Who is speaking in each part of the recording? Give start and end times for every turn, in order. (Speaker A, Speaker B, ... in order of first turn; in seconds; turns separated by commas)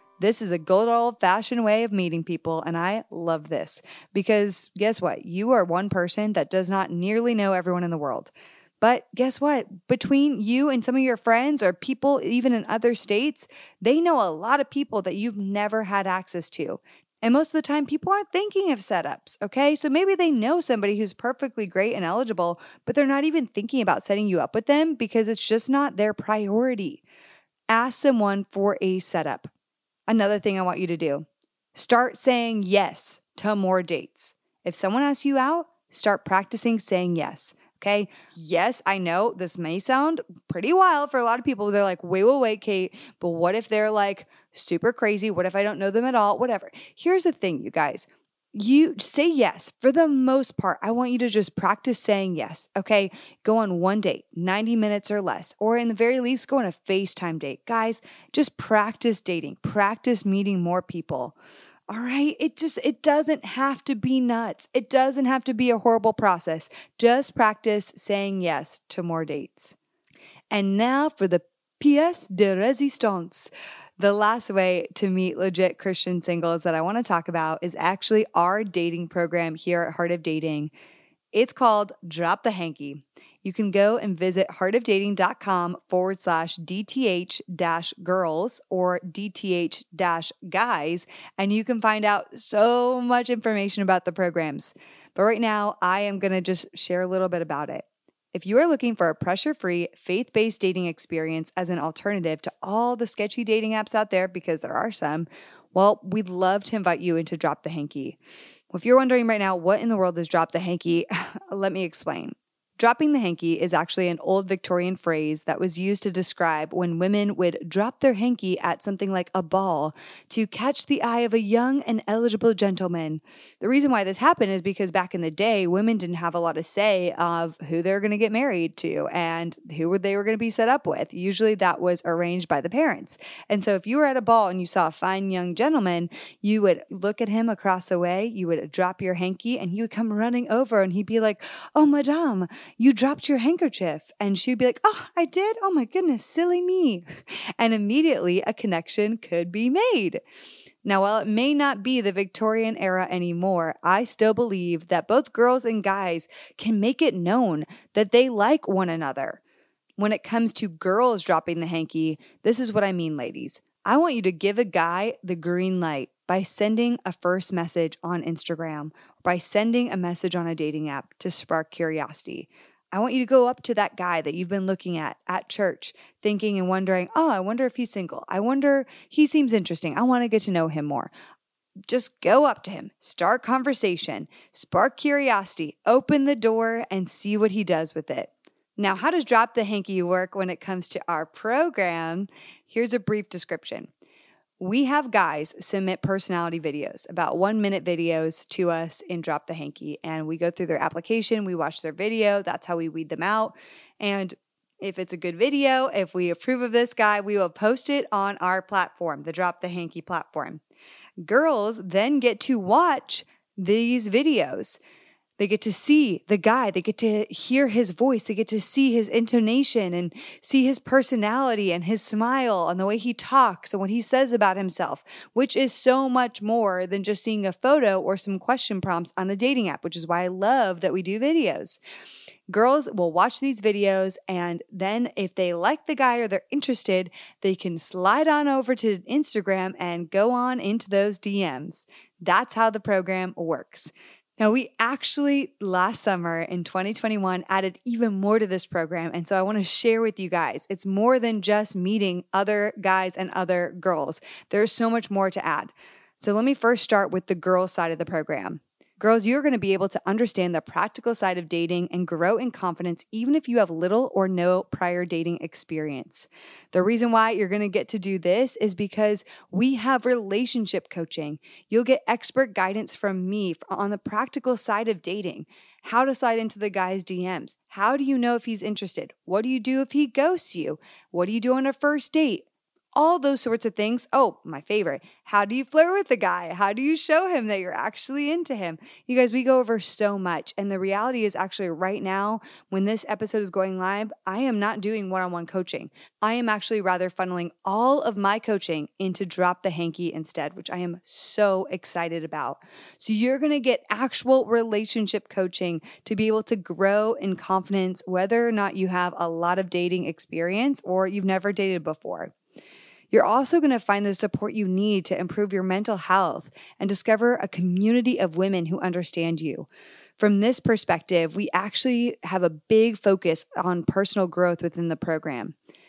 Speaker A: 0.2-27.0, Speaker A: 27.7-29.5, Speaker A: 30.1-61.4, Speaker A: 61.9-69.8, Speaker A: 70.5-80.7, Speaker A: 81.3-108.2, Speaker A: 108.7-147.1, Speaker A: 147.6-150.2, Speaker A: 150.8-159.4, Speaker A: 160.0-181.1, Speaker A: 181.9-193.9, Speaker A: 194.6-210.6, Speaker A: 211.2-214.8, Speaker A: 215.4-231.8, Speaker A: 232.5-312.3, Speaker A: 313.1-319.7, Speaker A: 320.2-325.5